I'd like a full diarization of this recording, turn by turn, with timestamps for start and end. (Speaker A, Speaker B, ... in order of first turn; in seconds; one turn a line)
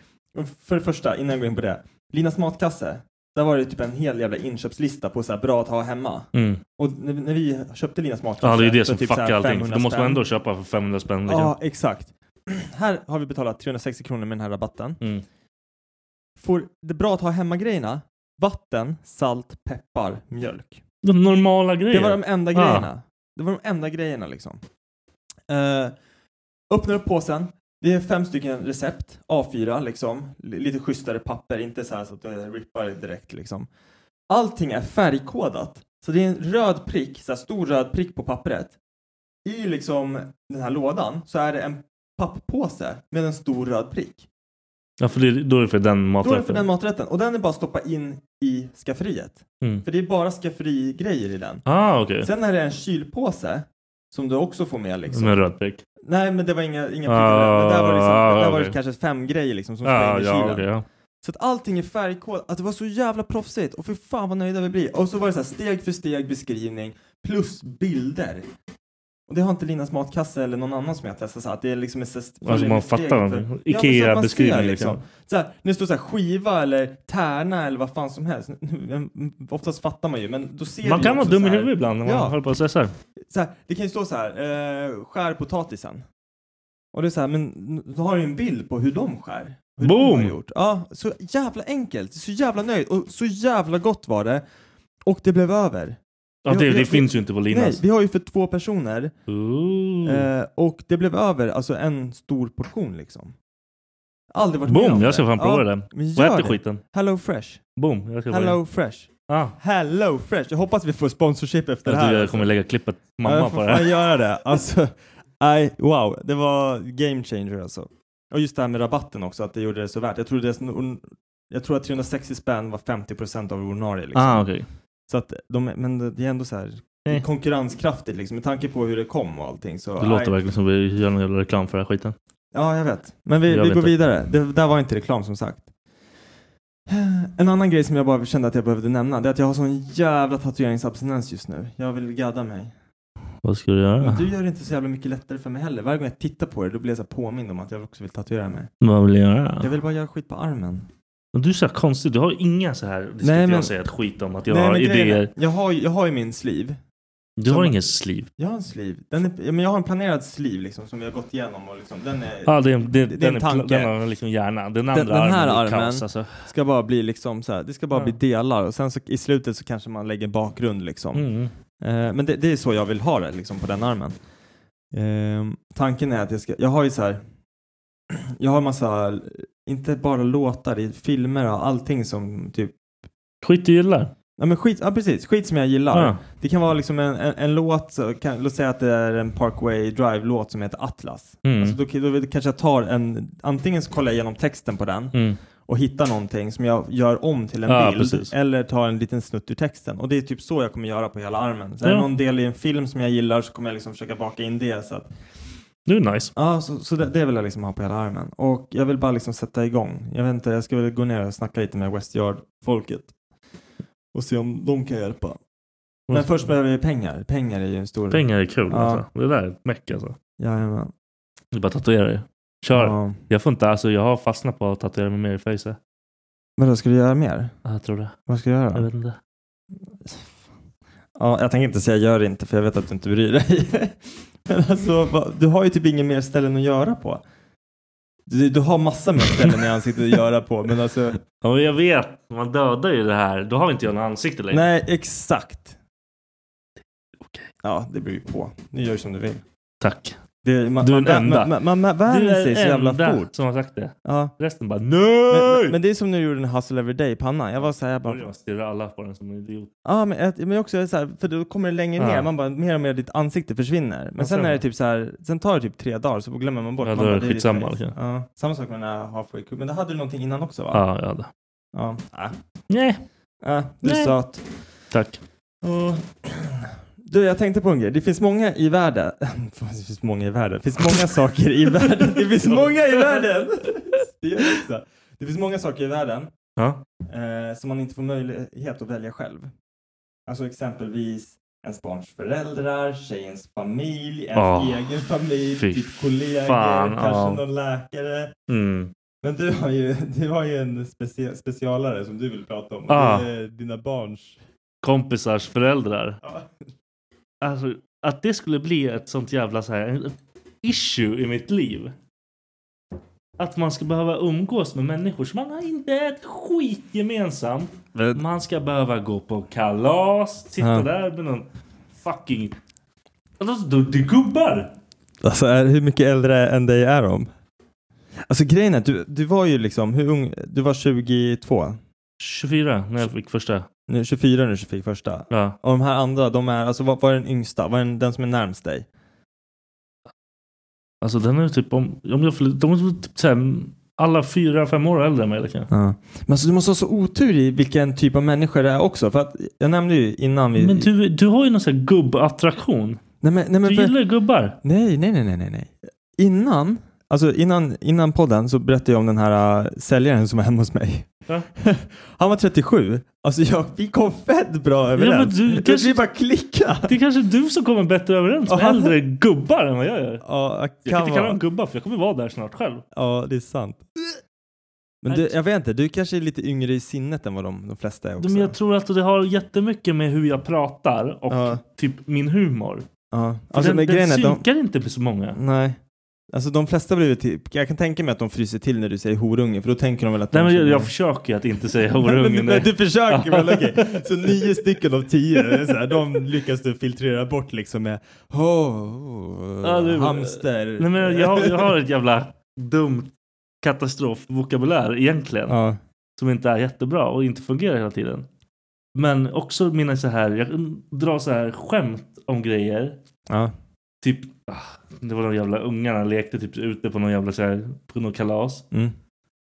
Speaker A: 0.3-10.2
Speaker B: 6.3-6.6
Speaker B: 8.4-11.5
Speaker A: 11.3-15.0
Speaker A: 16.4-20.8
Speaker B: 21.0-22.9
Speaker A: 21.9-24.6
Speaker A: 25.5-25.9
Speaker A: 26.7-33.7
Speaker A: 34.3-38.8
Speaker A: 39.5-44.3
Speaker B: 45.0-46.7
Speaker A: 46.2-51.6
Speaker B: 51.7-52.3
Speaker A: 52.2-55.4
Speaker B: 55.1-55.8
Speaker A: 56.0-60.7
Speaker B: 57.1-58.8
Speaker B: 59.8-60.9
Speaker A: 61.2-68.5
Speaker A: 69.3-82.4
Speaker B: 72.5-75.0
Speaker B: 80.8-82.9
Speaker A: 83.2-86.0
Speaker A: 86.9-94.4
Speaker B: 89.8-90.4
Speaker A: 95.1-99.1
Speaker B: 96.5-97.8
Speaker B: 99.3-100.3
Speaker A: 100.0-103.3
Speaker A: 104.3-107.6
Speaker B: 104.7-106.8
Speaker B: 107.8-108.6
Speaker A: 108.3-112.5
Speaker B: 109.3-109.6
Speaker B: 111.8-114.1
Speaker A: 113.2-124.5
Speaker B: 124.1-124.7
Speaker A: 125.1-130.3
Speaker B: 130.0-132.2
Speaker A: 132.5-135.7
Speaker B: 133.5-133.9
Speaker A: 136.9-142.7
Speaker B: 143.4-144.3
Speaker A: 144.0-148.7
Speaker B: 148.8-149.7
Speaker A: 149.6-150.9
Speaker B: 151.3-155.3
Speaker A: 153.2-153.8
Speaker A: 154.5-156.8
Speaker B: 157.4-158.3
Speaker A: 157.4-157.8
Speaker A: 158.4-163.9
Speaker B: 162.4-166.5
Speaker A: 164.9-171.3
Speaker B: 171.1-171.5
Speaker A: 171.8-174.2
Speaker A: 174.9-177.2
Speaker A: 178.1-182.7
Speaker B: 183.4-184.1
Speaker A: 184.4-205.1
Speaker B: 185.9-186.2
Speaker B: 191.4-191.8
Speaker B: 197.7-198.3
Speaker B: 201.8-202.1
Speaker B: 205.9-206.3
Speaker A: 206.3-213.1
Speaker A: 214.1-215.4
Speaker B: 216.1-216.4
Speaker A: 216.1-219.1
Speaker B: 218.1-220.2
Speaker A: 220.4-220.9
Speaker B: 221.5-225.8
Speaker A: 222.7-223.2
Speaker A: 226.6-227.5
Speaker B: 227.7-228.2
Speaker A: 228.3-228.9
Speaker B: 228.8-229.2
Speaker A: 231.2-237.2
Speaker A: 238.3-241.2
Speaker B: 239.3-239.6
Speaker B: 241.4-244.6
Speaker A: 244.5-245.8
Speaker B: 247.2-247.5
Speaker A: 247.6-249.4
Speaker B: 249.8-250.2
Speaker A: 250.4-253.3
Speaker B: 250.8-255.8
Speaker A: 254.1-254.3
Speaker A: 255.3-258.3
Speaker B: 258.0-259.7
Speaker A: 259.9-270.8
Speaker B: 262.0-262.3
Speaker B: 264.2-264.6
Speaker B: 266.8-268.0
Speaker B: 270.7-271.3
Speaker A: 271.7-272.4
Speaker B: 272.7-273.0
Speaker A: 273.4-274.5
Speaker B: 273.8-274.2
Speaker B: 274.9-275.2
Speaker A: 275.6-286.3
Speaker B: 281.9-283.3
Speaker B: 286.6-286.8
Speaker A: 287.1-289.5
Speaker A: 290.3-298.4
Speaker B: 294.4-294.9
Speaker B: 295.6-297.4
Speaker B: 298.5-298.9
Speaker A: 299.2-304.4
Speaker B: 302.9-303.3
Speaker B: 304.8-306.2
Speaker A: 306.2-306.6
Speaker B: 307.4-311.9
Speaker B: 313.4-322.6
Speaker A: 317.9-318.2
Speaker A: 320.6-320.9
Speaker B: 323.4-324.7
Speaker A: 325.2-327.3
Speaker A: 328.3-331.8
Speaker B: 332.2-333.7
Speaker A: 333.9-338.9
Speaker B: 335.3-335.6
Speaker B: 341.0-345.7
Speaker A: 345.7-350.9
Speaker B: 350.6-353.0
Speaker A: 353.2-354.0
Speaker B: 353.6-354.6
Speaker A: 354.6-366.9
Speaker B: 365.0-366.0
Speaker B: 366.9-370.2
Speaker A: 368.5-369.0
Speaker A: 370.2-371.4
Speaker B: 370.9-372.9
Speaker A: 372.9-374.1
Speaker A: 375.0-378.6
Speaker B: 375.1-375.4
Speaker B: 378.2-382.9
Speaker A: 381.3-381.6
Speaker A: 383.1-384.4
Speaker B: 383.5-385.4
Speaker A: 385.3-385.8
Speaker A: 386.3-390.9
Speaker B: 390.3-394.6
Speaker A: 391.9-401.8
Speaker B: 395.4-395.9
Speaker B: 399.6-405.6
Speaker A: 405.5-405.8
Speaker B: 406.2-408.3
Speaker B: 408.9-413.0
Speaker B: 414.0-418.6